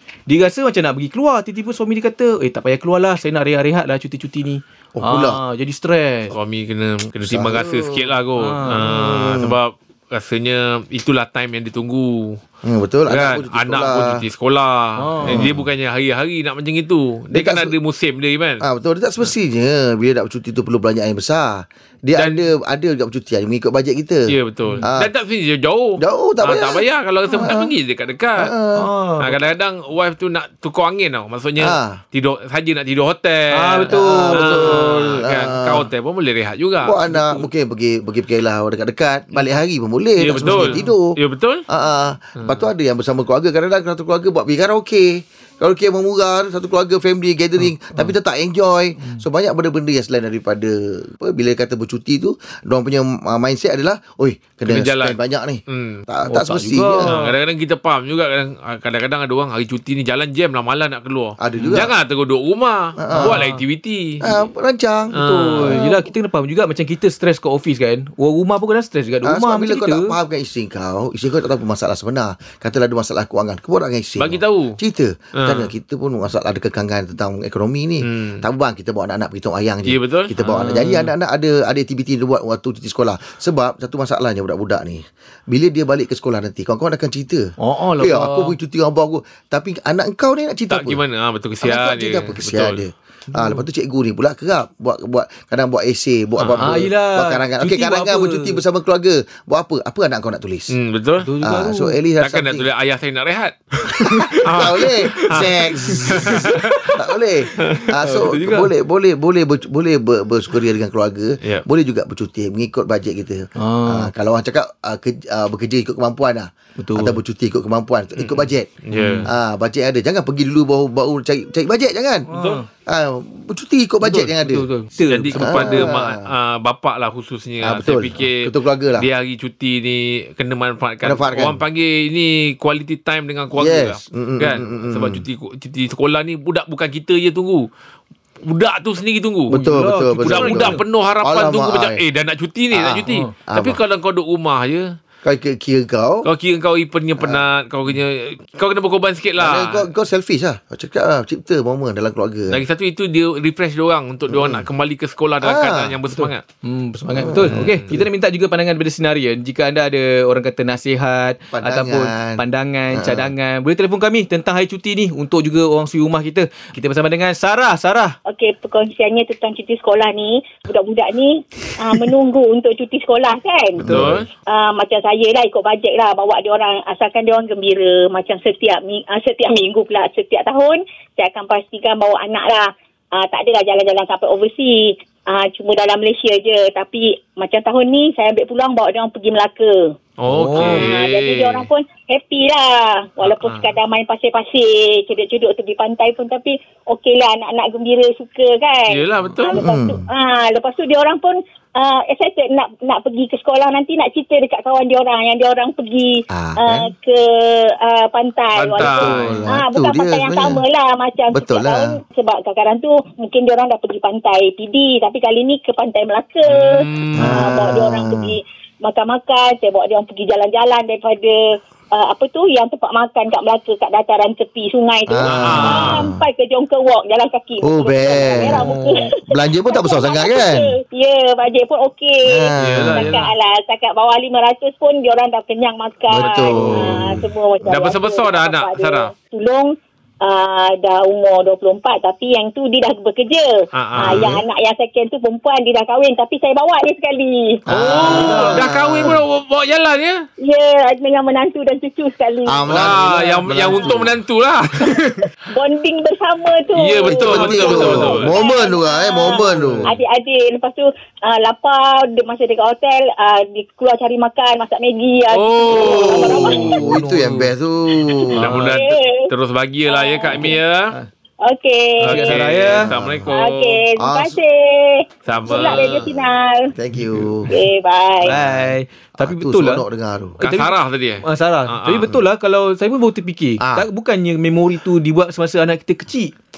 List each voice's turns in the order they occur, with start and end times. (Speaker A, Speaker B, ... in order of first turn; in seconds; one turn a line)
Speaker A: 0.3-6.3
Speaker B: 5.0-5.4
Speaker C: 6.3-12.4
Speaker B: 7.2-8.1
Speaker A: 8.4-8.9
Speaker B: 8.8-9.6
Speaker B: 12.6-14.2
Speaker C: 13.1-18.6
Speaker A: 15.0-15.5
Speaker B: 15.2-15.7
Speaker B: 17.3-17.7
Speaker B: 18.6-24.3
Speaker C: 22.2-22.4
Speaker C: 24.3-28.5
Speaker B: 24.9-25.1
Speaker B: 26.0-27.7
Speaker B: 28.4-28.9
Speaker A: 28.8-29.4
Speaker C: 29.2-37.0
Speaker B: 31.6-32.0
Speaker A: 33.5-34.8
Speaker B: 33.9-35.9
Speaker B: 36.8-41.2
Speaker C: 40.2-41.6
Speaker A: 40.4-40.9
Speaker B: 41.7-57.1
Speaker C: 42.4-42.6
Speaker C: 54.7-55.2
Speaker C: 55.7-56.0
Speaker A: 56.3-57.3
Speaker C: 57.1-64.2
Speaker B: 61.4-61.9
Speaker B: 63.0-63.4
Speaker A: 63.1-63.6
Speaker B: 64.2-65.9
Speaker A: 65.1-70.1
Speaker C: 65.2-65.8
Speaker B: 69.2-91.0
Speaker C: 74.2-74.8
Speaker C: 75.4-75.7
Speaker C: 78.0-78.4
Speaker C: 79.9-80.8
Speaker A: 80.6-81.1
Speaker A: 87.6-88.5
Speaker C: 90.7-92.8
Speaker B: 91.6-100.7
Speaker A: 93.3-93.6
Speaker C: 96.4-96.8
Speaker A: 96.6-98.6
Speaker C: 100.7-101.3
Speaker A: 101.2-102.0
Speaker B: 101.4-102.7
Speaker C: 102.2-103.6
Speaker A: 104.1-104.4
Speaker B: 104.4-118.7
Speaker C: 104.4-105.5
Speaker A: 105.2-106.9
Speaker C: 106.1-106.9
Speaker A: 108.0-108.7
Speaker A: 113.6-114.1
Speaker A: 116.8-117.2
Speaker C: 118.2-119.3
Speaker A: 118.9-119.3
Speaker B: 119.2-122.3
Speaker A: 122.3-122.7
Speaker B: 122.9-124.7
Speaker A: 124.0-125.9
Speaker C: 125.1-137.7
Speaker B: 125.4-126.2
Speaker B: 127.6-129.1
Speaker B: 131.0-131.6
Speaker B: 133.6-135.2
Speaker C: 138.5-139.6
Speaker B: 139.5-142.0
Speaker A: 139.5-140.8
Speaker C: 140.2-144.9
Speaker B: 142.7-143.8
Speaker B: 145.2-146.3
Speaker C: 146.2-149.9
Speaker B: 149.4-152.6
Speaker C: 152.5-156.4
Speaker B: 154.3-154.7
Speaker B: 155.4-156.0
Speaker A: 156.1-168.2
Speaker B: 157.2-158.1
Speaker C: 157.5-157.9
Speaker B: 161.5-163.3
Speaker D: 168.3-173.9
Speaker B: 173.8-174.2
Speaker C: 173.8-174.3
Speaker D: 174.5-189.9
Speaker C: 190.2-191.7
Speaker A: 190.3-190.9
Speaker D: 190.6-247.6
Speaker C: 193.2-193.8
Speaker C: 198.9-199.7
Speaker B: 199.6-200.1
Speaker B: 206.3-206.9
Speaker C: 208.6-209.4
Speaker B: 208.8-210.6
Speaker B: 211.3-212.0
Speaker C: 216.4-217.6
Speaker B: 217.2-218.4
Speaker B: 225.1-226.2
Speaker C: 225.2-226.1
Speaker B: 227.6-228.7
Speaker A: 228.4-229.1
Speaker B: 229.3-230.7
Speaker B: 232.2-233.1
Speaker C: 232.6-233.3
Speaker B: 236.1-237.3
Speaker C: 236.1-237.1
Speaker C: 237.6-239.1
Speaker C: 243.7-244.4
Speaker B: 244.0-244.4
Speaker B: 247.7-249.2
Speaker C: 247.7-250.3
Speaker A: 248.0-248.6
Speaker D: 248.2-248.5
Speaker D: 250.4-253.0
Speaker B: 252.5-254.2
Speaker C: 252.7-255.2
Speaker D: 255.5-266.8
Speaker C: 256.8-258.4
Speaker B: 257.1-259.9
Speaker A: 259.5-259.9
Speaker C: 265.3-266.8
Speaker B: 265.7-268.5
Speaker A: 266.6-267.5
Speaker A: 268.4-268.8
Speaker C: 268.4-270.9
Speaker D: 268.6-269.3
Speaker D: 269.9-270.6
Speaker D: 271.4-272.3
Speaker C: 272.0-273.8
Speaker A: 272.1-272.9
Speaker B: 272.8-273.3
Speaker D: 273.3-276.7
Speaker B: 274.0-274.4
Speaker C: 275.3-276.2
Speaker B: 276.8-277.5
Speaker D: 277.5-278.4
Speaker A: 278.2-279.9
Speaker B: 278.3-280.4
Speaker A: 280.4-286.3
Speaker C: 280.4-282.1
Speaker B: 283.6-283.9